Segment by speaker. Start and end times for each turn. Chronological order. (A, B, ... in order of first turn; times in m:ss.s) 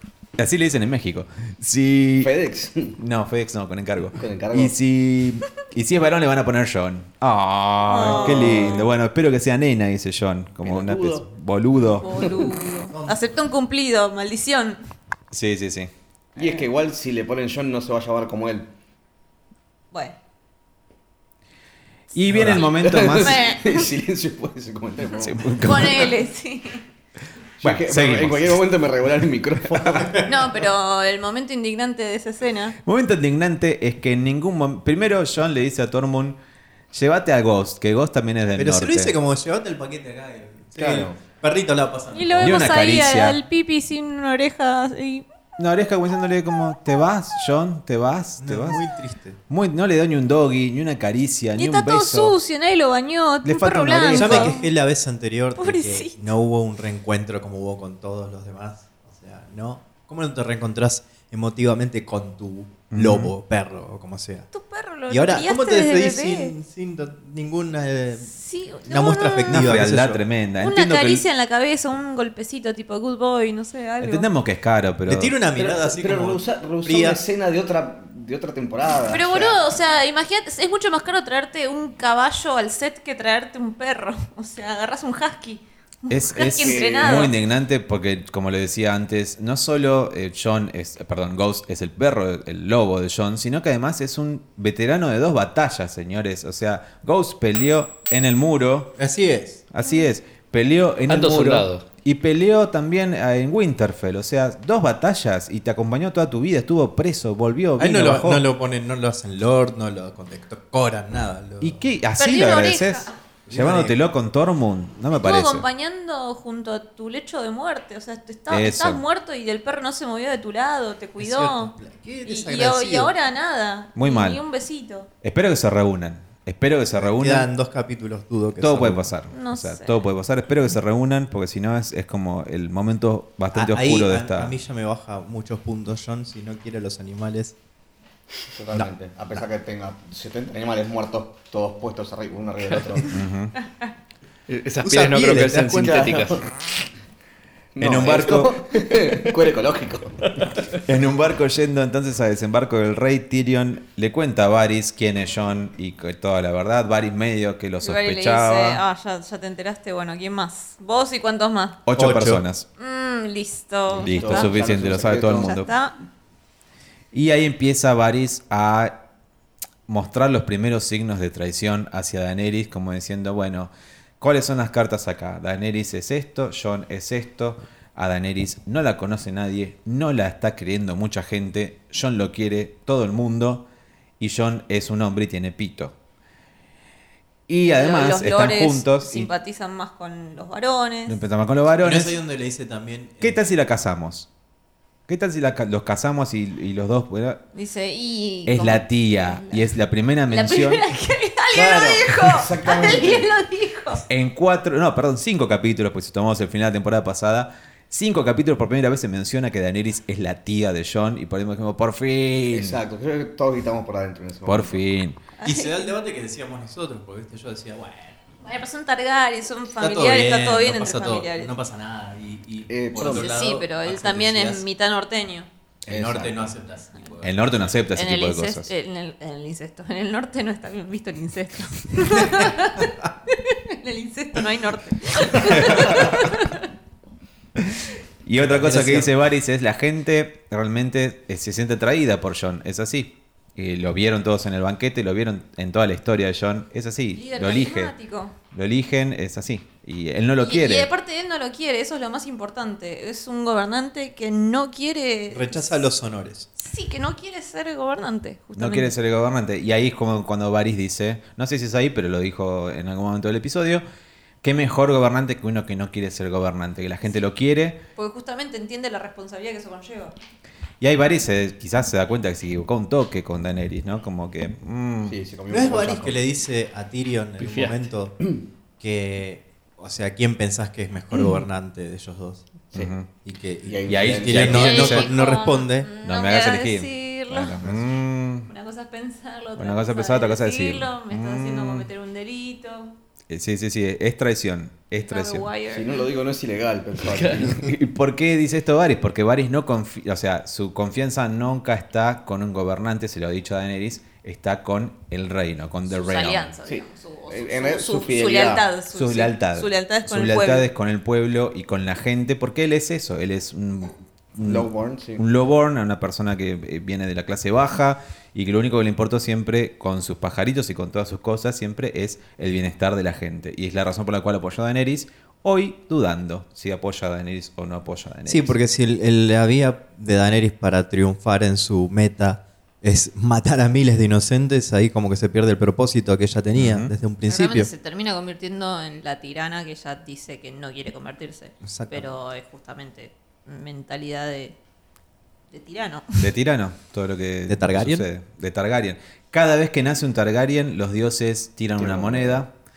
0:00.4-0:02.3 A
0:02.2-0:03.0 B
0:03.0-0:12.3 A
0:04.2-0:04.7 B
0:07.8-0:08.9 C
0:08.0-0:08.9 B
0:10.6-0:11.2 B
0:12.0-0:14.8 C
0:12.9-0:13.3 D
0:15.3-0:15.9 A
0:16.4-0:18.7 B
0:16.4-0:16.6 C
0:22.1-0:23.4 A
0:22.3-0:26.1 B
0:22.5-0:23.9 C
0:25.2-0:26.1 A
0:25.6-0:26.8 C
0:27.6-0:28.6 A
0:27.6-0:30.3 B
0:29.9-0:30.2 D
0:30.2-0:32.8 C
0:32.8-0:36.4 A
0:36.9-0:39.1 A
0:38.5-0:42.8 D
0:40.8-0:41.2 B
0:42.1-0:45.2 C
0:42.4-0:43.4 A
0:45.6-0:48.8 A
0:48.4-0:49.4 D
0:49.5-0:52.4 A
0:51.6-0:54.7 C
0:53.4-0:54.6 A
0:54.1-1:04.5 D
0:55.6-0:56.2 C
1:02.9-1:03.3 A
1:04.5-1:06.5 C
1:05.1-1:08.3 D
1:08.2-1:09.7 C
1:08.8-1:10.2 D
1:09.5-1:11.2 A
1:10.6-1:14.3 C
1:14.0-1:15.4 A
1:15.0-1:17.2 D
1:15.5-1:19.6 B
1:19.0-1:27.3 C
1:26.1-1:39.0 A
1:26.6-1:27.3 B
1:39.0-1:39.6 D
1:39.7-1:48.4 A
1:41.1-1:41.8 E
1:47.8-1:51.8 D
1:51.6-1:55.6 A
1:52.2-1:53.1 C
1:53.5-1:54.0 D
1:55.1-2:01.7 C
1:58.5-1:59.0 A
2:01.2-2:03.1 D
2:02.2-2:05.1 C
2:04.0-2:04.4 A
2:05.2-2:07.5 A
2:07.0-2:09.2 D
2:08.6-2:14.6 A
2:09.3-2:10.0 C
2:13.5-2:17.6 D
2:18.5-2:23.2 B
2:23.1-2:23.5 A
2:24.5-2:26.4 E
2:24.8-2:26.2 D
2:25.7-2:26.5 B
2:27.8-2:30.4 B
2:27.8-2:28.5 D
2:27.8-2:28.5 A
2:30.8-2:38.8 A
2:37.8-2:41.8 C
2:41.8-2:42.6 A
2:41.9-2:42.4 D
2:42.8-2:44.6 C
2:43.9-2:45.6 B
2:44.0-2:45.7 A
2:45.3-2:46.0 C
2:47.1-2:49.0 A
2:49.9-3:03.6 A
3:04.2-3:05.9 A
3:07.5-3:09.3 A
3:07.6-3:11.2 C
3:11.1-3:12.2 A
3:11.8-3:13.4 D
3:13.2-3:14.3 A
3:15.1-3:17.4 A
3:17.5-3:19.7 C
3:18.4-3:20.8 A
3:20.3-3:24.0 C
3:21.5-3:23.2 B
3:24.1-3:32.8 A
3:32.5-3:34.8 B
3:34.4-3:35.2 A
3:35.4-3:35.9 C
3:35.4-3:38.2 D
3:38.4-3:41.5 C
3:39.8-3:44.6 D
3:42.7-3:43.3 B
3:43.0-3:45.5 C
3:45.8-3:46.5 B
3:45.8-3:47.6 D
3:47.2-3:48.7 A
3:47.9-3:56.6 C
3:55.4-3:56.3 A
3:58.2-4:07.9 A
3:58.4-3:59.1 D
4:07.1-4:08.3 C
4:08.5-4:10.9 A
4:10.4-4:15.8 C
4:15.3-4:16.5 D
4:16.6-4:18.9 C
4:18.6-4:23.8 A
4:24.4-4:27.8 A
4:28.0-4:30.1 C
4:30.8-4:35.2 A
4:35.0-4:36.2 B
4:35.5-4:38.2 D
4:37.4-4:37.8 E
4:38.8-4:42.5 D
4:42.7-4:43.1 A
4:43.2-4:45.9 D
4:43.6-4:45.0 B
4:43.9-4:45.1 A
4:44.5-4:47.6 C
4:46.0-4:48.5 A
4:48.5-4:52.9 C
4:49.6-4:51.9 A
4:53.3-4:55.5 A
4:55.0-4:56.0 C
4:55.7-4:57.7 B
4:57.2-4:57.5 E
4:57.5-5:06.5 A
5:05.9-5:10.7 C
5:06.6-5:08.7 B
5:08.9-5:28.6 A
5:14.4-5:15.2 B
5:28.2-5:37.7 D
5:36.5-5:36.9 A
5:37.3-5:44.6 C
5:41.6-5:42.1 D
5:45.5-5:46.3 C
5:46.2-5:52.5 A
5:47.5-5:48.1 D
5:51.8-5:52.4 B